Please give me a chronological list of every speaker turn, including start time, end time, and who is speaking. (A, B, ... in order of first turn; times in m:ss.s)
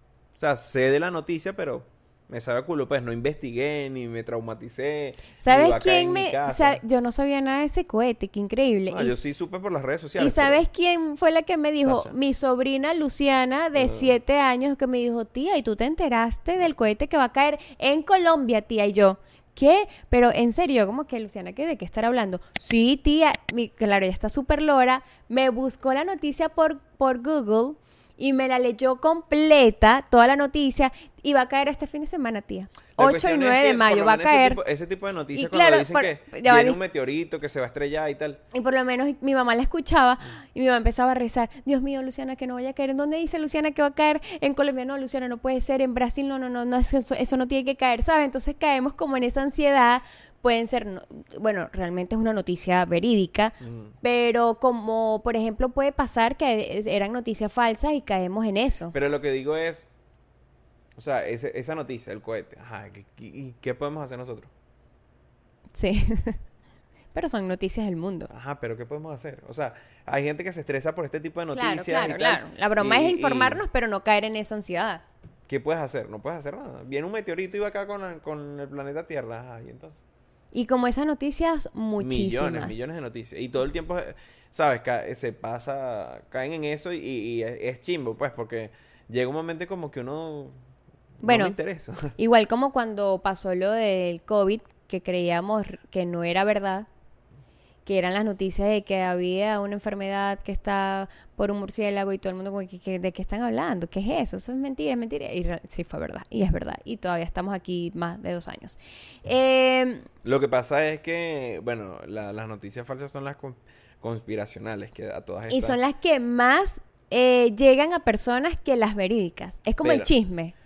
0:00.4-0:06.8 A
0:05.4-0:09.2 B
0:08.9-0:10.6 A
0:10.2-0:34.6 B
0:11.8-0:12.1 A
0:13.8-0:14.1 A
0:33.0-0:38.4 A
0:35.3-0:36.8 B
0:38.5-0:58.9 B
0:53.6-0:53.9 A
0:58.9-0:59.9 A
1:01.0-1:04.5 A
1:05.7-1:06.4 B
1:07.1-1:08.3 B
1:08.3-1:13.6 A
1:11.5-1:15.0 B
1:15.5-1:20.0 A
1:20.5-1:22.8 B
1:22.0-1:30.6 A
1:31.2-1:32.1 A
1:31.2-1:31.5 B
1:32.2-1:36.9 B
1:37.8-1:50.1 B
1:50.2-1:55.8 A
1:55.5-2:00.5 B
1:59.8-2:00.1 A